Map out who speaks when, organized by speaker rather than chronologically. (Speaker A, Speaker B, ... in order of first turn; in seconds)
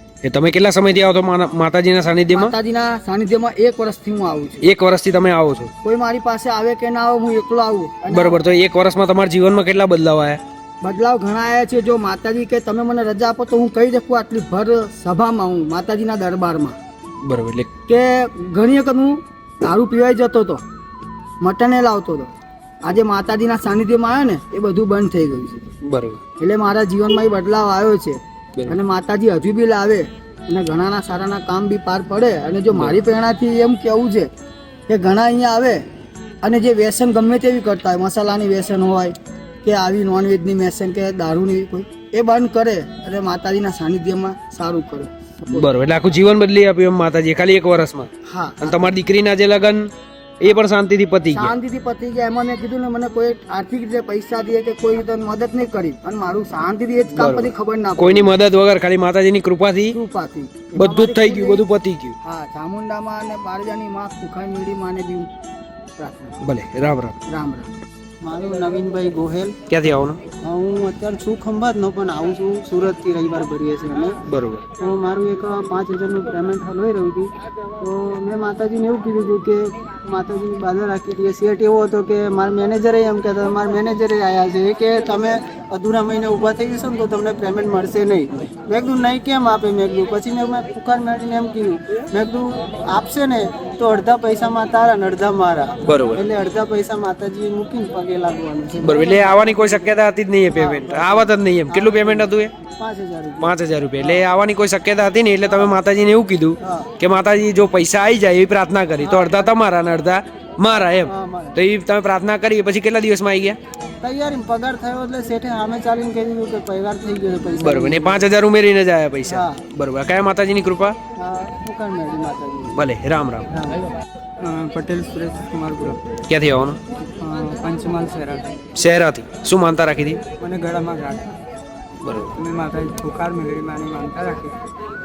Speaker A: 0.2-2.5, 4.6-5.7, 8.1-10.4, 17.2-17.7, 25.8-26.2, 45.5-48.1, 48.6-51.5, 57.1-60.0, 60.8-62.2, 66.4-67.2, 69.7-70.2, 74.3-74.7, 95.9-96.2, 98.8-102.5, 103.4-113.6, 117.6-121.0, 122.8-123.5, 126.3-126.8, 128.8-130.2, 132.0-132.3
Speaker B: 2.3-4.6, 5.8-8.4, 10.8-16.8, 17.9-20.6, 21.4-22.3, 22.8-25.7, 26.4-34.3, 34.9-35.8, 36.4-45.6, 48.3-48.8, 51.3-58.3, 60.0-61.6, 62.2-65.3, 66.0-66.3, 67.3-67.7
Speaker C: 68.2-69.6, 70.4-74.2, 74.8-100.0, 100.5-104.3, 106.6-106.9, 109.0-109.5, 111.1-111.6, 114.0-118.2, 119.3-119.6, 121.2-122.8, 123.5-123.8, 124.4-126.0, 127.2-128.6, 130.4-131.3, 132.4-134.5